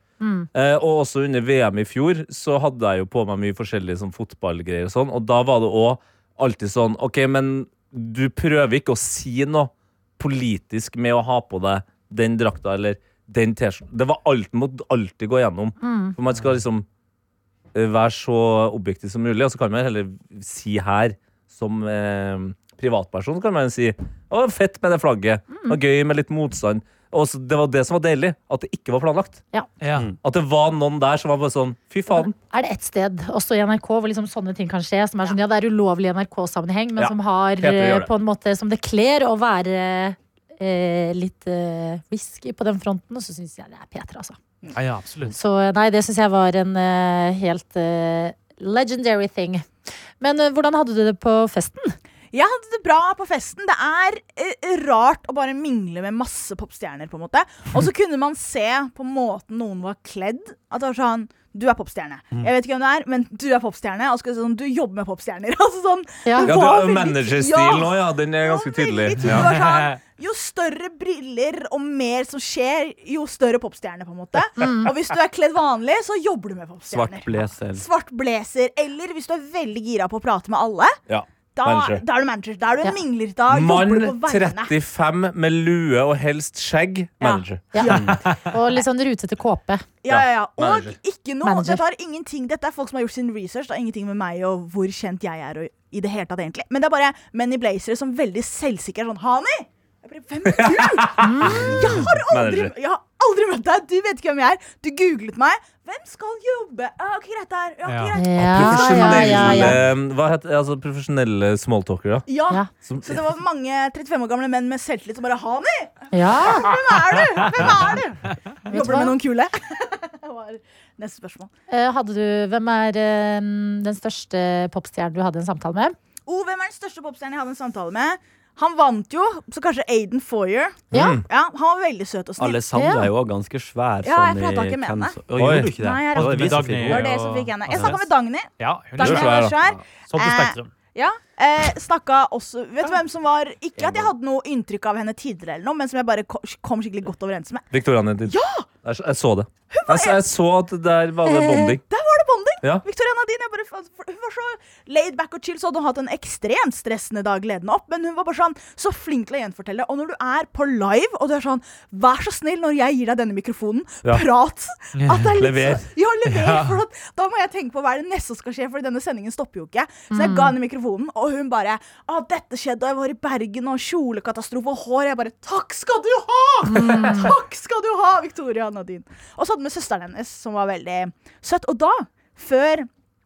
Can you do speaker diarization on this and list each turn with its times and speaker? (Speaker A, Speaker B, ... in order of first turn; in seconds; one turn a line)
Speaker A: 0.2-0.5
Speaker B: 0.5-16.9
Speaker A: 15.8-16.1
Speaker B: 17.7-29.4
Speaker A: 25.5-25.8
Speaker C: 29.8-30.1
Speaker B: 30.2-32.3
Speaker A: 32.1-44.4
Speaker B: 37.0-38.1
Speaker C: 44.7-45.4
Speaker A: 45.3-49.7
Speaker A: 50.2-52.0
Speaker D: 52.3-81.0
Speaker A: 66.2-66.5
Speaker B: 66.4-69.5
Speaker C: 69.2-70.0
Speaker A: 74.6-74.9
Speaker E: 76.9-77.8
Speaker B: 81.1-82.0
Speaker D: 81.5-84.7
Speaker B: 83.5-87.7
Speaker D: 87.2-88.2
Speaker A: 87.7-89.9
Speaker D: 90.0-109.7
Speaker B: 90.1-91.0
Speaker A: 91.4-91.8
Speaker B: 100.4-102.7
Speaker A: 101.2-101.7
Speaker C: 107.8-108.2
Speaker A: 108.2-109.8
Speaker B: 108.4-112.3
Speaker D: 112.3-121.5
Speaker B: 112.8-113.2
Speaker A: 116.1-116.7
Speaker A: 118.7-119.1
Speaker A: 121.7-125.9
Speaker D: 126.3-132.6
Speaker A: 130.9-131.2
Speaker B: 130.9-131.2
Speaker E: 132.4-137.1
Speaker A: 132.8-133.1
Speaker D: 134.0-135.2
Speaker B: 135.3-135.7
Speaker C: 135.5-139.5
Speaker D: 135.7-147.7
Speaker B: 139.0-139.5
Speaker C: 140.1-140.7
Speaker E: 143.8-144.1
Speaker B: 147.7-151.8
Speaker D: 148.2-148.7
Speaker D: 149.7-150.2
Speaker D: 151.4-182.9
Speaker B: 152.6-152.8
Speaker C: 164.9-165.3
Speaker B: 165.4-165.9
Speaker C: 166.3-166.8
Speaker A: 170.1-170.5
Speaker A: 176.7-177.3